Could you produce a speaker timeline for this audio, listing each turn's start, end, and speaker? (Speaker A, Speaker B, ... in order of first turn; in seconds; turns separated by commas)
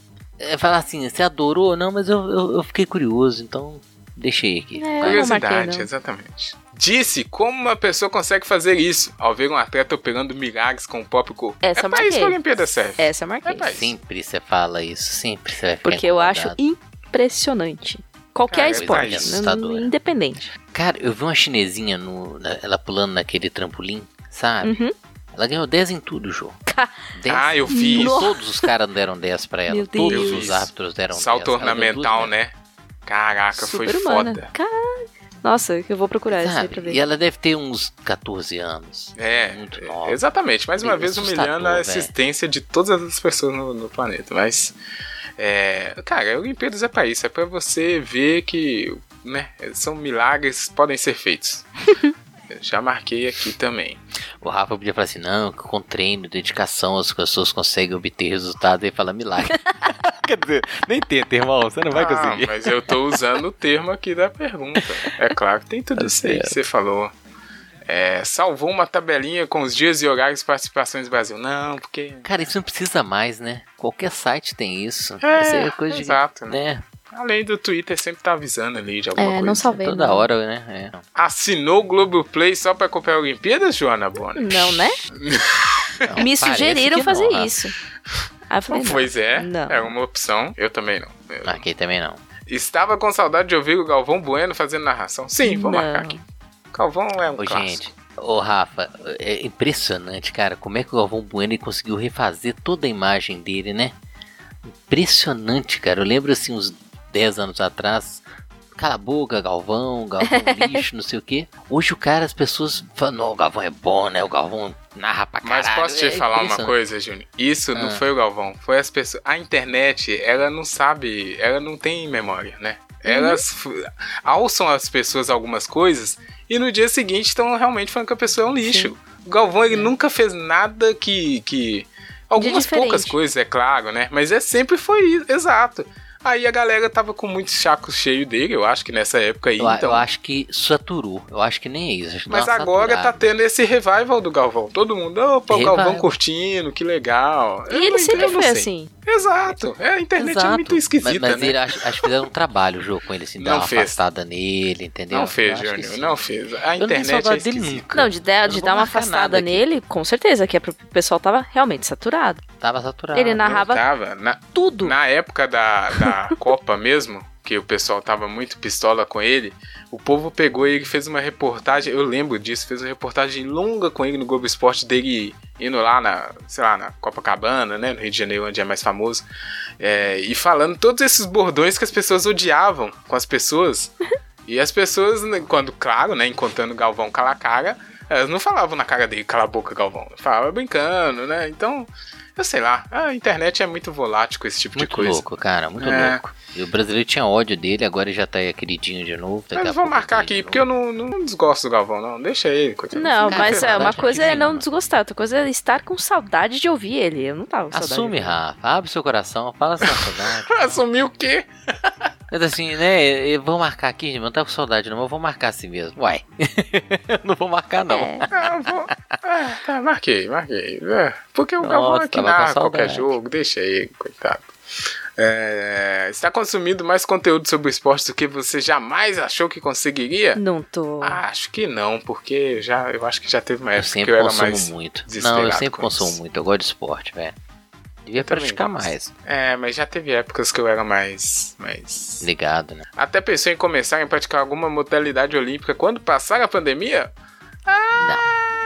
Speaker A: 0.4-5.3, Speaker B: 4.8-5.9, Speaker C: 5.0-13.9, Speaker B: 11.6-12.4, Speaker B: 13.0-13.7, Speaker A: 13.7-16.6, Speaker B: 15.8-20.5, Speaker C: 18.5-19.4, Speaker A: 18.6-19.9, Speaker A: 20.7-24.8, Speaker B: 24.6-24.9, Speaker A: 25.3-26.6, Speaker B: 26.7-27.1, Speaker A: 27.1-32.3, Speaker C: 27.3-28.2, Speaker B: 27.7-28.7, Speaker B: 29.7-30.5, Speaker C: 30.1-32.5, Speaker C: 33.1-34.5, Speaker B: 33.5-37.0, Speaker A: 36.3-40.2, Speaker C: 39.2-44.8, Speaker A: 40.8-42.1, Speaker C: 45.4-51.7, Speaker C: 52.5-54.0, Speaker A: 54.4-63.0, Speaker C: 61.9-67.1, Speaker A: 64.8-65.1, Speaker A: 66.0-66.6, Speaker C: 67.9-72.3, Speaker A: 72.2-76.8, Speaker C: 75.2-76.6, Speaker C: 77.1-79.8, Speaker B: 79.2-80.3, Speaker A: 79.7-81.0, Speaker C: 81.2-86.2, Speaker B: 84.4-85.0, Speaker A: 86.0-87.5, Speaker B: 86.2-87.8, Speaker B: 88.5-89.9, Speaker C: 88.7-91.6, Speaker A: 91.4-92.2, Speaker C: 92.5-96.2, Speaker B: 95.4-96.2, Speaker C: 96.7-97.9, Speaker A: 97.4-103.9, Speaker A: 104.9-108.2, Speaker A: 108.8-116.8, Speaker B: 110.2-110.8, Speaker C: 115.4-140.1, Speaker A: 117.7-118.0, Speaker B: 123.0-123.4, Speaker B: 128.6-128.9, Speaker B: 132.4-133.2, Speaker A: 139.6-143.3, Speaker C: 142.3-152.1, Speaker A: 145.5-146.1, Speaker B: 147.7-148.9, Speaker A: 150.2-156.2, Speaker C: 153.4-154.0, Speaker C: 155.1-157.9, Speaker A: 156.8-159.6, Speaker B: 157.9-162.4, Speaker A: 162.6-163.5, Speaker B: 163.1-163.8, Speaker C: 163.4-179.3, Speaker B: 164.5-164.9, Speaker C: 179.8-183.9, Speaker C: 184.5-195.2, Speaker A: 194.8-200.6, Speaker C: 195.8-196.2, Speaker C: 199.6-204.4, Speaker B: 202.9-208.4, Speaker A: 203.3-204.7, Speaker A: 207.7-210.8, Speaker C: 209.8-211.9, Speaker A: 212.3-218.9, Speaker B: 217.9-218.3, Speaker C: 218.3-224.5, Speaker A: 221.6-223.2, Speaker C: 225.2-230.4, Speaker B: 230.4-231.2, Speaker C: 231.0-236.2, Speaker A: 233.8-237.3, Speaker A: 238.1-239.1, Speaker C: 238.2-242.3, Speaker A: 242.2-242.8, Speaker C: 243.0-247.1, Speaker C: 247.7-248.3, Speaker A: 248.0-248.3